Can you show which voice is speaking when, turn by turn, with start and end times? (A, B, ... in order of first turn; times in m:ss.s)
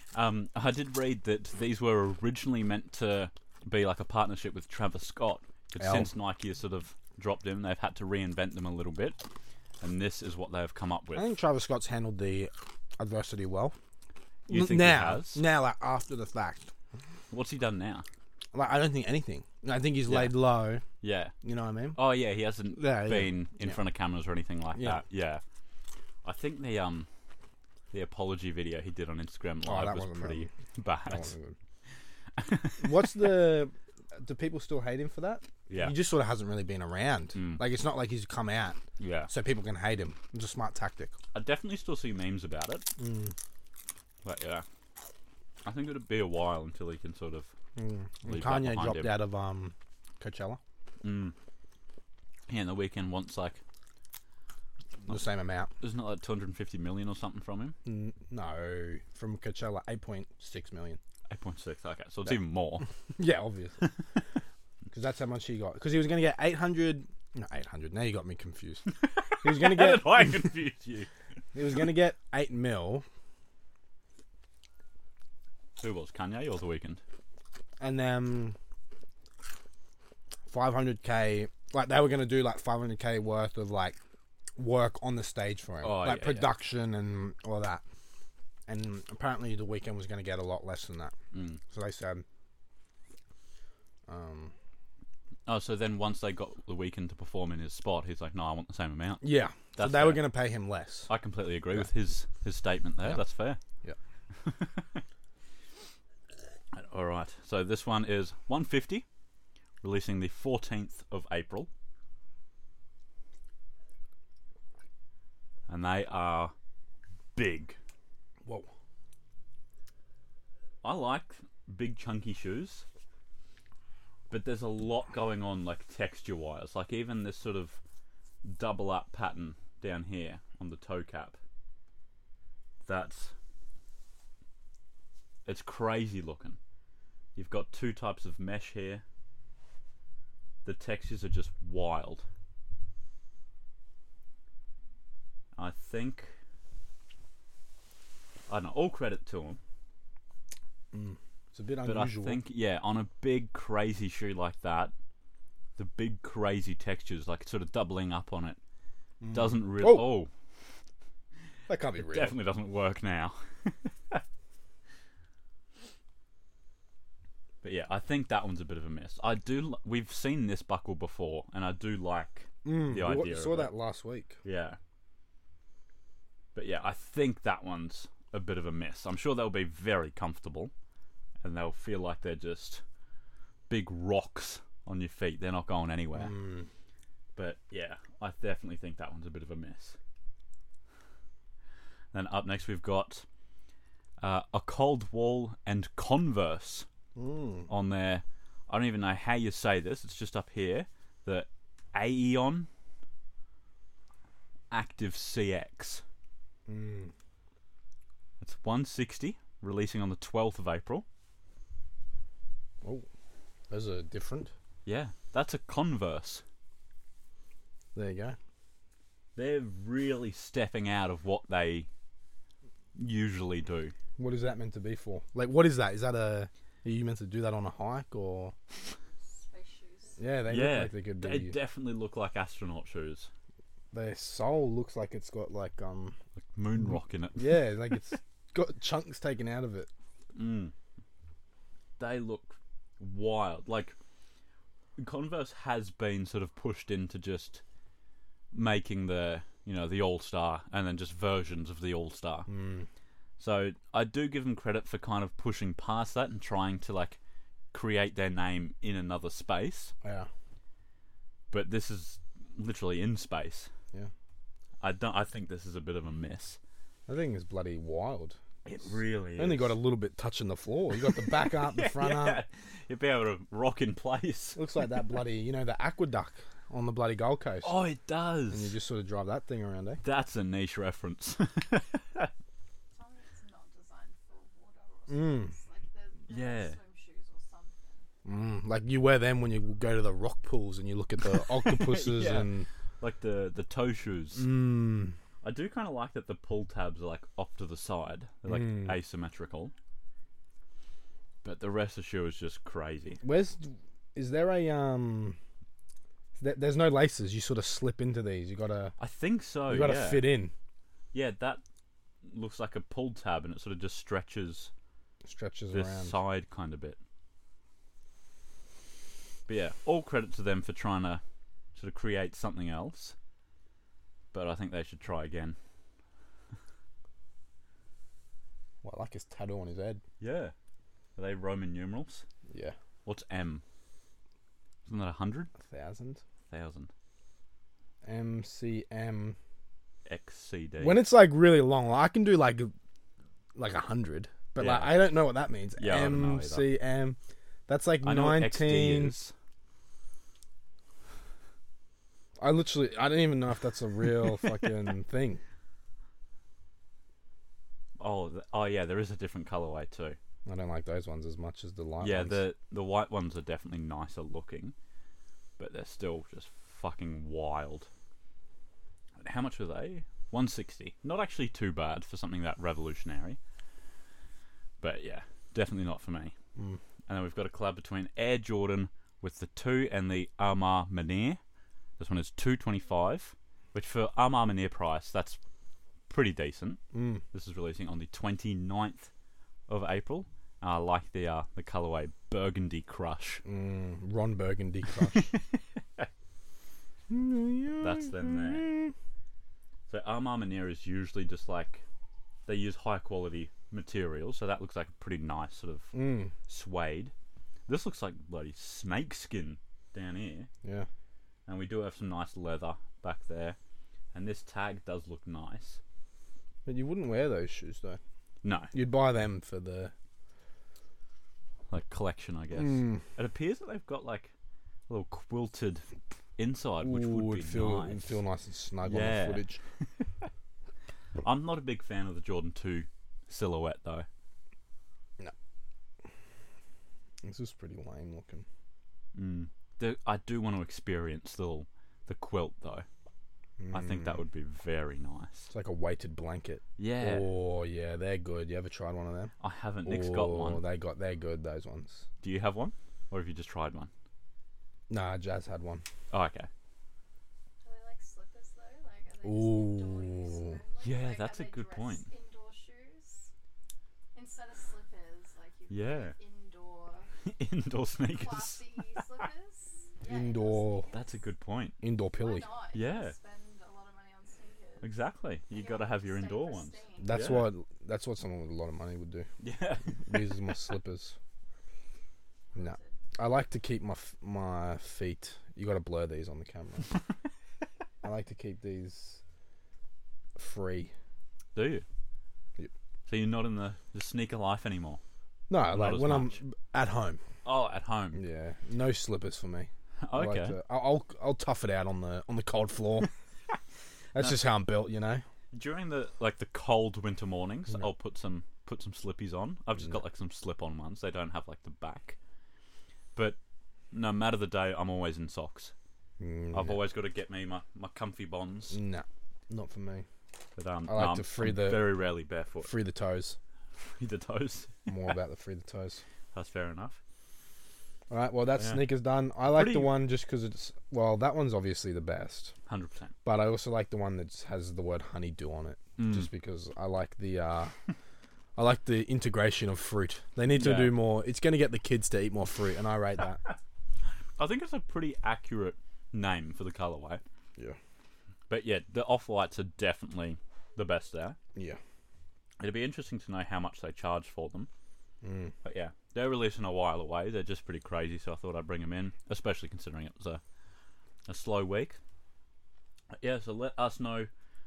0:00.1-0:09.2 A
0:05.8-0:06.1 B
0:09.8-0:11.3 A
0:11.1-0:13.7 B
0:14.5-0:15.4 A
0:14.5-0:16.7 B
0:17.3-0:18.0 A
0:18.5-0:20.8 B
0:20.0-0:20.4 A
0:21.0-0:21.3 A
0:21.4-0:22.0 B
0:21.9-0:25.4 A
0:22.7-0:23.8 B
0:24.7-0:25.0 B
0:26.2-0:27.1 A
0:27.9-0:31.3 A
0:29.6-0:30.5 B
0:31.0-0:31.6 B
0:32.4-0:33.1 A
0:32.8-0:41.1 B
0:35.7-0:35.9 A
0:37.3-0:37.6 A
0:39.0-0:39.3 A
0:41.3-0:42.8 A
0:43.0-0:43.3 B
0:44.2-0:44.6 A
0:45.6-0:47.5 A
0:47.8-0:50.6 B
0:48.2-0:49.2 A
0:51.0-0:51.3 A
0:52.5-0:53.6 A
0:55.0-0:55.7 B
0:55.8-0:57.8 A
0:57.8-1:01.0 B
1:01.3-1:02.8 A
1:03.2-1:03.9 B
1:04.9-1:10.5 B
1:08.9-1:11.1 A
1:11.5-1:13.0 B
1:15.8-1:17.0 A
1:17.8-1:18.6 B
1:20.5-1:24.0 B
1:24.6-1:27.8 B
1:25.8-1:26.5 A
1:28.7-1:31.1 B
1:31.3-1:31.6 A
1:31.7-1:32.2 B
1:34.1-1:34.5 B
1:35.4-1:39.2 A
1:39.2-1:41.1 B
1:39.8-1:40.3 A
1:41.1-1:43.6 A
1:44.4-1:45.0 A
1:46.7-1:49.0 A
1:49.8-1:51.7 A
1:55.7-1:56.5 A
1:57.3-1:57.8 A
2:00.8-2:02.8 A
2:04.3-2:07.8 A
2:08.4-2:11.4 A
2:12.8-2:13.3 A
2:15.4-2:16.6 A
2:17.4-2:19.0 A
2:20.6-2:22.2 A
2:25.6-2:26.4 A
2:28.5-2:29.6 A
2:30.9-2:32.4 B
2:31.8-2:34.9 A
2:35.8-2:38.6 A
2:39.2-2:40.2 B
2:39.3-2:40.3 A
2:41.7-2:42.4 B
2:42.0-2:44.2 A
2:47.6-2:53.7 A
2:52.6-2:54.4 B
2:54.4-2:54.8 A
2:56.5-3:00.7 A
3:01.4-3:02.8 A
3:03.7-3:06.4 A
3:06.1-3:06.7 B
3:07.4-3:10.0 A
3:12.1-3:13.2 A
3:14.2-3:16.8 A
3:17.2-3:17.7 B
3:17.7-3:22.7 A
3:24.7-3:26.0 A
3:26.7-3:27.1 B
3:28.4-3:31.0 A
3:32.8-3:33.1 B
3:33.7-3:34.5 B
3:34.8-3:36.4 A
3:37.9-3:38.4 B
3:39.3-3:41.9 A
3:43.0-3:43.9 A
3:44.2-3:48.5 B
3:49.3-3:50.2 C
3:50.2-3:51.6 B
3:50.5-3:53.3 A
3:53.9-3:56.2 B
3:56.5-3:57.7 A
3:57.4-3:59.9 B
4:00.3-4:00.7 A
4:02.0-4:03.9 A
4:05.0-4:07.6 A
4:08.5-4:12.5 A
4:12.5-4:12.9 B
4:13.4-4:17.2 A
4:17.7-4:19.9 A
4:21.5-4:23.7 A
4:24.8-4:26.6 A
4:27.1-4:28.4 B
4:28.6-4:29.8 A
4:29.4-4:32.4 B
4:31.0-4:34.6 A
4:34.6-4:37.8 B
4:37.6-4:38.8 A
4:38.5-4:40.0 B
4:40.0-4:42.3 A
4:42.9-4:48.1 C
4:45.1-4:45.5 B
4:46.3-4:46.8 A
4:48.2-4:52.7 B
4:51.6-4:54.5 A
4:54.3-4:55.1 B
4:55.4-4:59.7 A
4:58.5-4:58.9 B
5:01.4-5:03.2 A
5:03.2-5:05.4 B
5:06.4-5:08.9 B
5:09.0-5:10.3 A
5:09.7-5:10.5 B
5:11.1-5:11.6 A
5:12.2-5:14.7 A
5:15.2-5:16.2 B
5:15.7-5:17.0 A
5:19.5-5:21.2 A
5:21.8-5:23.1 A
5:24.3-5:25.6 A
5:28.8-5:30.0 B
5:30.2-5:30.5 A
5:31.2-5:32.2 A
5:32.5-5:32.7 B
5:33.0-5:33.6 A
5:34.9-5:35.5 A
5:35.6-5:36.2 B
5:36.5-5:36.9 A
5:38.0-5:39.4 B
5:40.0-5:41.1 A
5:40.8-5:42.7 B
5:43.5-5:47.2 B
5:44.6-5:45.1 A
5:45.8-5:46.7 A
5:47.7-5:49.2 B
5:48.0-5:49.3 A
5:52.4-5:55.4 B
5:58.0-6:00.2 A
6:00.4-6:02.4 B
6:02.0-6:04.7 A
6:05.6-6:07.9 A
6:09.2-6:13.4 A
6:14.8-6:16.3 A
6:17.1-6:21.4 A
6:22.0-6:25.4 A
6:26.1-6:26.8 A
6:26.9-6:27.2 B
6:27.3-6:29.1 A
6:29.7-6:33.4 A
6:33.4-6:35.3 B
6:35.1-6:35.4 A
6:37.1-6:38.9 B
6:37.8-6:38.7 A
6:39.9-6:41.8 A
6:42.4-6:45.9 A
6:45.9-6:46.3 B
6:46.5-6:47.1 A
6:47.7-6:50.5 A
6:51.4-6:53.6 A
6:54.1-6:55.8 A
6:56.6-6:58.0 B
6:58.4-6:58.7 A
6:58.7-6:59.9 B
7:01.7-7:04.3 A
7:02.5-7:03.0 B
7:04.9-7:05.8 A
7:06.4-7:08.2 A
7:06.8-7:09.6 B
7:08.8-7:09.5 A
7:10.0-7:10.3 A
7:11.2-7:14.1 A
7:17.2-7:18.4 B
7:19.1-7:22.8 A
7:23.6-7:24.2 B
7:23.7-7:25.5 A
7:25.5-7:29.3 B
7:26.8-7:27.3 A
7:29.4-7:30.6 A
7:29.8-7:32.0 B
7:32.2-7:33.9 A
7:34.9-7:35.8 B
7:36.1-7:36.5 A
7:37.6-7:43.3 C
7:39.2-7:40.6 B
7:40.8-7:42.0 A
7:44.1-7:47.1 C
7:45.7-7:46.2 A
7:47.2-7:49.2 A
7:48.1-7:51.2 C
7:50.1-7:50.9 B
7:50.9-7:51.8 A
7:51.8-7:52.5 B
7:52.1-7:54.9 C
7:52.7-7:53.2 A
7:54.8-7:57.5 A
7:55.5-7:57.4 C
7:57.0-7:59.3 B
7:59.4-8:00.5 A
8:00.0-8:01.2 B
8:02.5-8:03.0 C
8:02.5-8:06.9 B
8:08.0-8:09.2 B
8:10.4-8:10.9 B
8:11.5-8:11.8 A
8:13.1-8:15.0 A
8:15.5-8:17.2 B
8:15.6-8:16.4 A
8:17.4-8:18.2 A
8:18.1-8:23.1 B
8:20.0-8:20.6 A
8:24.1-8:25.2 B
8:25.5-8:32.2 A
8:33.9-8:35.7 A
8:36.2-8:36.8 B
8:36.5-8:38.8 A
8:38.7-8:40.0 B
8:40.6-8:42.7 A
8:40.9-8:42.1 B
8:42.6-8:43.4 B
8:43.8-8:44.9 A
8:44.9-8:46.0 B
8:46.3-8:47.0 A
8:48.1-8:52.5 B
8:48.6-8:48.9 A
8:49.4-8:50.0 A
8:52.7-8:53.1 A
8:53.2-8:57.7 B
8:56.0-8:56.3 A
8:58.6-9:03.4 B
9:00.5-9:01.0 A
9:04.4-9:07.2 A
9:08.5-9:11.4 A
9:12.6-9:14.7 A
9:15.2-9:15.5 B
9:15.6-9:20.4 A
9:21.3-9:22.0 A
9:23.2-9:24.3 A